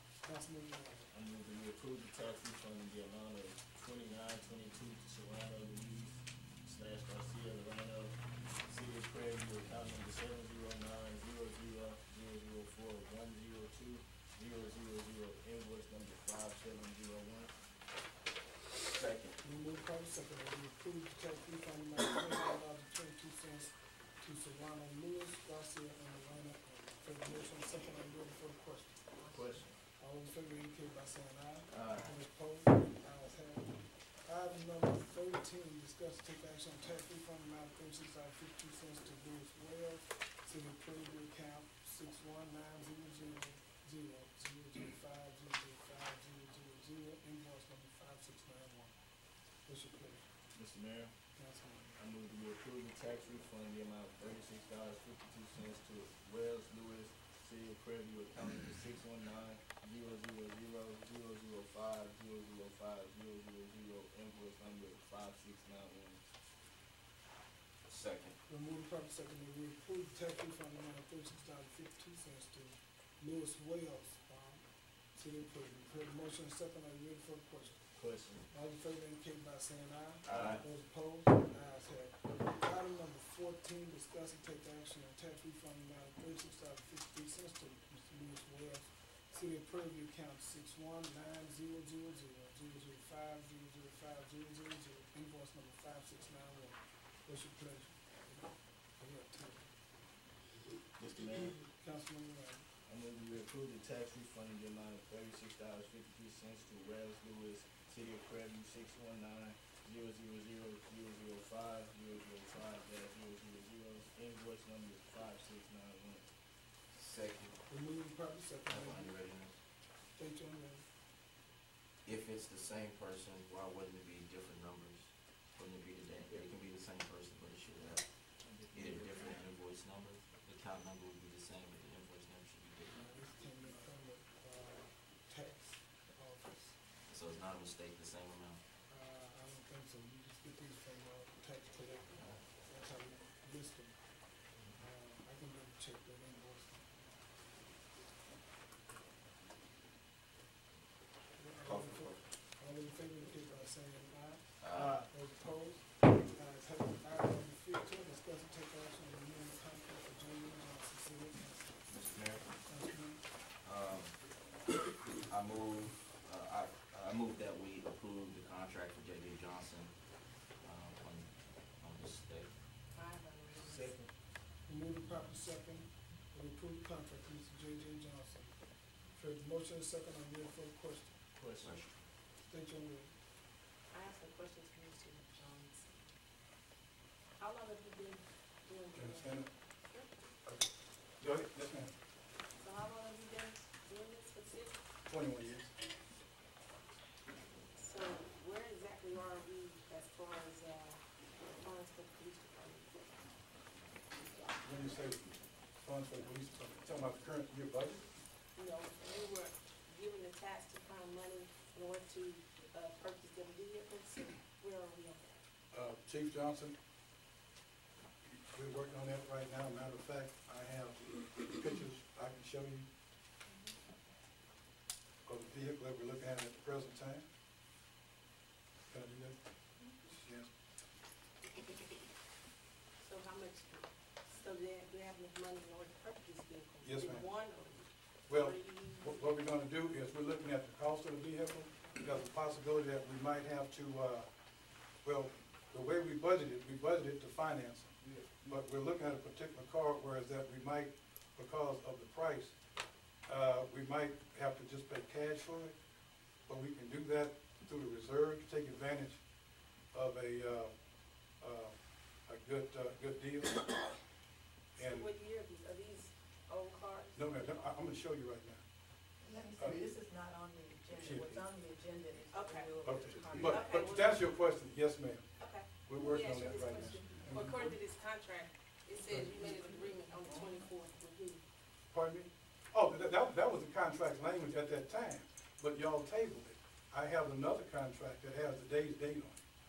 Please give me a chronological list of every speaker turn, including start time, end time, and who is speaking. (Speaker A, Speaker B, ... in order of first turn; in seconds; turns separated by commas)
Speaker A: 0.2-1.1, Speaker B: 1.1-17.5, Speaker C: 18.8-19.4, Speaker A: 19.4-29.4, Speaker B: 29.3-29.8, Speaker A: 29.9-49.0, Speaker B: 31.7-32.1, Speaker A: 49.6-50.3, Speaker B: 50.5-51.1, Speaker A: 51.4-52.0, Speaker B: 52.0-66.2, Speaker C: 67.8-68.4, Speaker A: 68.5-99.7, Speaker B: 77.9-78.5, Speaker C: 80.2-80.6, Speaker B: 80.3-80.6, Speaker B: 101.0-101.6, Speaker A: 101.5-102.7, Speaker B: 102.8-116.3, Speaker C: 116.9-117.6, Speaker A: 117.7-119.1, Speaker C: 118.7-119.6, Speaker A: 120.1-120.9, Speaker C: 122.0-133.1, Speaker B: 128.5-129.2, Speaker A: 132.9-136.8, Speaker C: 137.1-138.6, Speaker A: 138.9-146.9, Speaker A: 151.3-162.0, Speaker C: 151.6-152.2, Speaker C: 154.6-155.0, Speaker B: 154.7-155.1, Speaker C: 161.9-162.5, Speaker A: 162.6-163.2, Speaker C: 163.6-164.1, Speaker C: 165.2-169.9, Speaker C: 170.6-172.5, Speaker D: 172.9-173.9, Speaker B: 173.6-174.1, Speaker A: 174.6-181.2, Speaker B: 181.3-181.8, Speaker C: 181.6-182.0, Speaker A: 182.4-183.2, Speaker D: 183.9-186.1, Speaker D: 187.4-190.1, Speaker E: 188.9-189.5, Speaker E: 191.2-191.9, Speaker D: 192.6-194.8, Speaker E: 195.1-195.7, Speaker D: 197.8-203.0, Speaker E: 204.6-205.2, Speaker E: 205.8-208.1, Speaker D: 208.5-215.4, Speaker E: 215.7-216.8, Speaker E: 218.2-222.9, Speaker E: 225.2-227.2, Speaker E: 228.9-229.4, Speaker E: 230.1-230.5, Speaker D: 233.0-239.3, Speaker E: 236.8-237.3, Speaker E: 238.3-244.3, Speaker E: 245.0-252.6, Speaker B: 248.0-248.5, Speaker E: 253.2-255.8, Speaker E: 256.4-259.2, Speaker E: 259.9-260.8, Speaker E: 261.4-261.7, Speaker E: 262.2-263.6, Speaker E: 264.8-265.1, Speaker D: 264.8-267.5, Speaker E: 267.1-268.6, Speaker F: 269.2-273.8, Speaker E: 270.9-271.4, Speaker D: 272.3-274.3, Speaker E: 272.8-275.2, Speaker D: 275.4-281.4, Speaker E: 275.8-277.6, Speaker E: 279.1-279.6, Speaker E: 281.9-289.4